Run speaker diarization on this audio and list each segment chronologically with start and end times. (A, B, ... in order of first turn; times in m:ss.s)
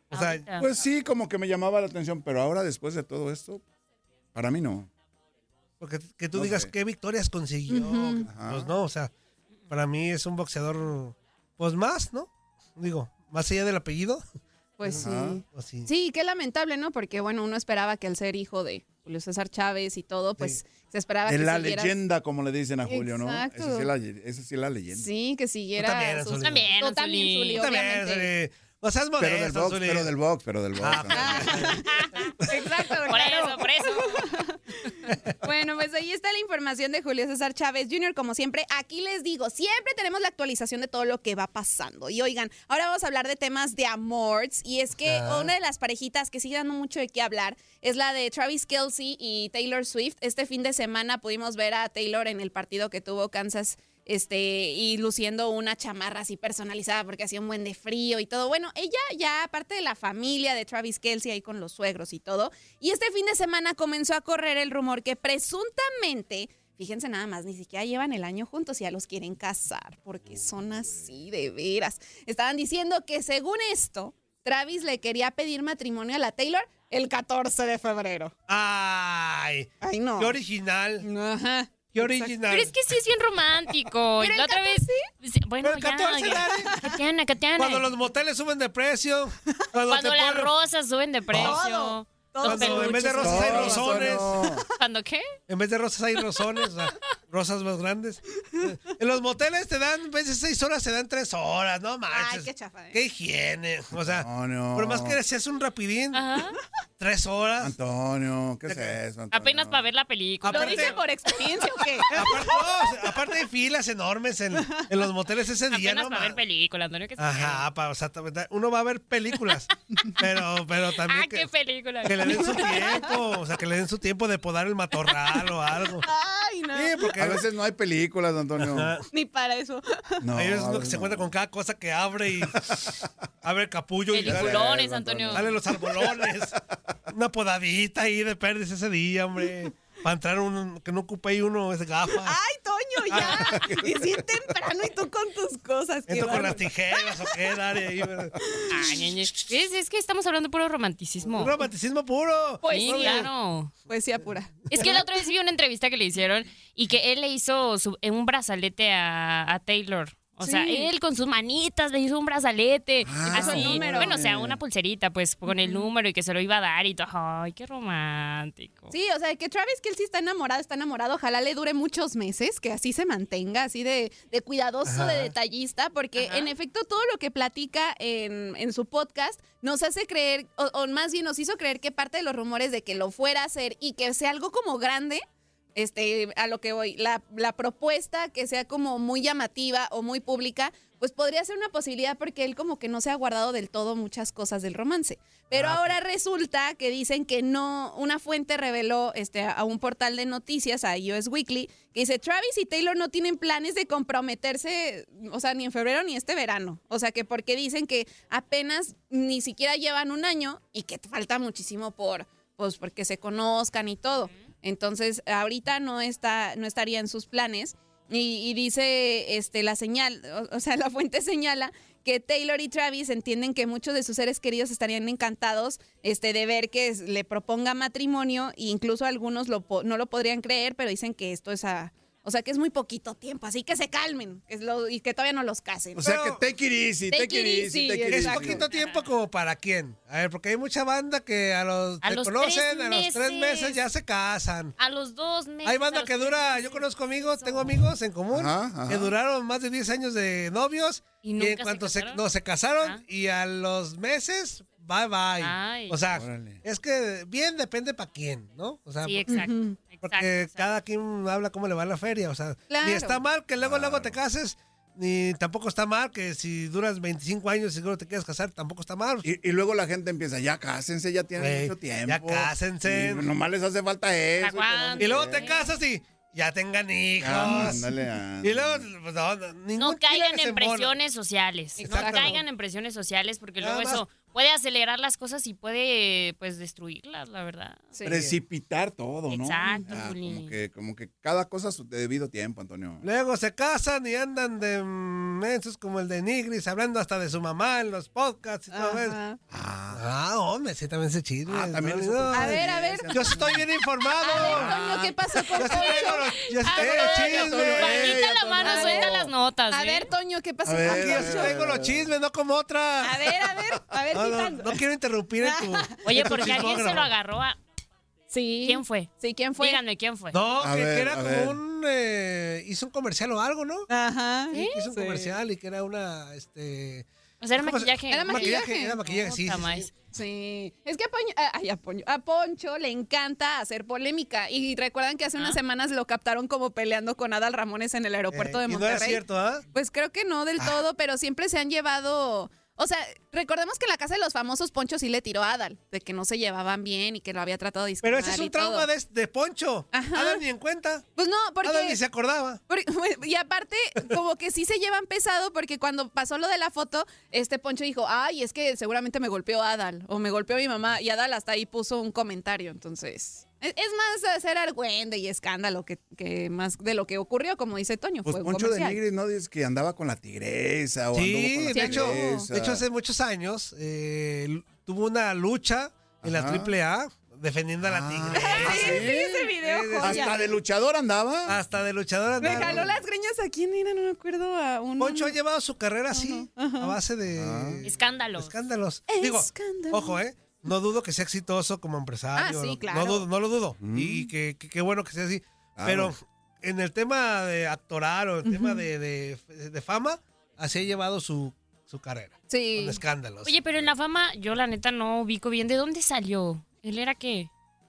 0:00.1-0:00.5 A
0:00.1-0:00.6 B
0:00.6-0:03.6 C
0:04.3-0:04.9 C
0:05.8-0:09.1 A
0:06.3-0:06.7 C
0:07.7-0:08.3 D
0:08.2-0:08.7 C
0:09.7-0:14.2 A
0:14.8-0:22.0 D
0:14.8-0:15.9 A
0:14.9-0:15.4 C
0:21.3-0:25.1 C
0:22.8-0:23.9 D
0:24.9-0:28.3 D
0:25.8-0:26.7 A
0:26.4-0:27.7 B
0:27.6-0:30.1 A
0:29.2-0:31.8 C
0:30.8-0:31.8 A
0:31.1-0:34.6 D
0:31.8-0:32.3 B
0:33.1-0:34.3 B
0:35.4-1:18.3 D
0:45.0-0:45.5 A
1:18.5-1:21.0 A
1:19.8-1:20.4 D
1:21.0-1:22.3 D
1:21.9-1:22.7 A
1:22.5-1:27.9 B
1:24.2-1:25.0 D
1:25.6-1:26.7 A
1:26.6-1:26.9 D
1:27.6-1:30.5 A
1:29.9-1:34.1 B
1:31.3-1:34.7 D
1:31.3-1:31.6 A
1:32.4-1:34.3 A
1:33.2-1:34.6 C
1:34.8-1:35.2 B
1:35.5-1:46.2 A
1:42.1-1:43.0 D
1:44.0-1:45.2 C
1:46.1-1:46.6 B
1:47.0-1:47.7 A
1:47.6-1:49.8 C
1:49.3-1:51.0 B
1:50.4-1:51.0 A
1:50.4-1:53.0 D
1:52.1-1:56.4 A
1:54.6-1:54.9 D
1:55.7-1:57.6 B
1:57.2-2:01.5 A
2:01.0-2:03.1 B
2:02.0-2:06.0 A
2:02.3-2:03.1 D
2:06.0-2:07.1 D
2:06.7-2:07.4 A
2:07.2-2:08.9 C
2:08.6-2:09.0 A
2:09.1-2:10.2 D
2:10.2-2:11.3 C
2:10.3-2:14.7 A
2:14.1-2:15.5 B
2:14.2-2:16.3 C
2:15.3-2:16.6 A
2:17.1-2:22.4 A
2:22.2-2:27.5 D
2:23.1-2:23.6 A
2:23.3-2:24.2 C
2:26.1-2:28.3 A
2:28.4-2:29.0 D
2:28.7-2:31.6 B
2:31.2-2:33.3 A
2:32.6-2:33.3 D
2:32.7-2:33.7 B
2:33.9-2:35.0 D
2:34.7-2:48.9 B
2:40.4-2:40.9 D
2:43.0-2:44.6 C
2:43.2-2:44.2 D
2:45.4-2:45.9 D
2:48.9-3:05.2 D
2:54.9-2:55.3 A
2:56.2-2:56.5 B
3:05.8-3:56.1 D
3:15.6-3:15.9 A
3:56.0-3:58.6 C
3:56.0-3:56.4 A
3:57.1-3:58.6 D
3:58.1-4:04.7 A
3:58.7-3:59.1 B
4:02.0-4:03.8 B
4:04.8-4:07.8 B
4:05.6-4:19.4 A
4:08.3-4:09.1 C
4:11.2-4:12.2 B
4:15.4-4:16.0 B
4:16.1-4:16.6 C
4:19.0-4:20.8 B
4:19.3-4:19.8 D
4:20.0-4:29.2 A
4:22.7-4:23.2 D
4:23.6-4:24.2 C
4:29.2-4:35.5 C
4:31.4-4:33.3 A
4:34.4-4:35.7 B
4:35.0-4:37.9 A
4:37.2-4:38.9 C
4:38.4-4:40.9 A
4:39.8-4:47.9 B
4:41.8-4:42.4 D
4:41.8-4:42.4 A
4:43.6-4:44.0 A
4:47.9-4:48.2 D
4:48.0-4:53.0 C
4:48.1-4:48.3 A
4:49.3-4:50.5 B
4:53.0-4:59.2 A
4:58.7-4:59.4 D
4:59.5-5:00.0 C
4:59.9-5:04.9 A
5:01.5-5:03.7 C
5:02.3-5:03.4 D
5:04.2-5:07.3 D
5:04.3-5:06.1 C
5:05.6-5:08.2 A
5:06.6-5:10.1 B
5:06.8-5:09.3 C
5:08.6-5:11.6 D
5:10.6-5:12.1 C
5:10.8-5:13.3 A
5:13.0-5:14.8 D
5:14.1-5:17.1 A
5:15.4-5:16.0 D
5:16.0-5:17.6 B
5:18.3-5:19.8 D
5:18.6-5:20.4 B
5:20.3-5:23.9 A
5:20.6-5:21.6 C
5:23.9-5:25.4 D
5:24.5-5:27.0 A
5:27.4-5:29.9 B
5:27.6-5:29.9 A
5:28.1-5:29.0 D
5:30.1-5:48.9 D
5:38.3-5:39.6 A
5:48.0-5:51.0 A
5:49.9-5:50.4 D
5:51.2-5:52.0 D
5:51.6-5:52.6 A
5:52.7-6:09.0 D
6:08.2-6:12.8 C
6:11.1-6:20.5 A
6:11.7-6:12.5 D
6:16.2-6:16.7 C
6:17.8-6:19.5 C
6:18.3-6:20.6 D
6:20.0-6:21.6 C
6:21.5-6:23.0 A
6:22.4-6:22.9 C
6:22.4-6:25.4 D
6:25.0-6:43.5 A
6:26.1-6:27.0 D
6:27.3-6:27.8 C
6:27.8-6:28.5 B
6:29.1-6:30.2 D
6:32.3-6:33.3 D
6:33.8-6:34.3 C
6:35.8-6:36.1 C
6:38.4-6:38.8 D
6:42.5-6:43.0 D
6:43.4-6:47.5 B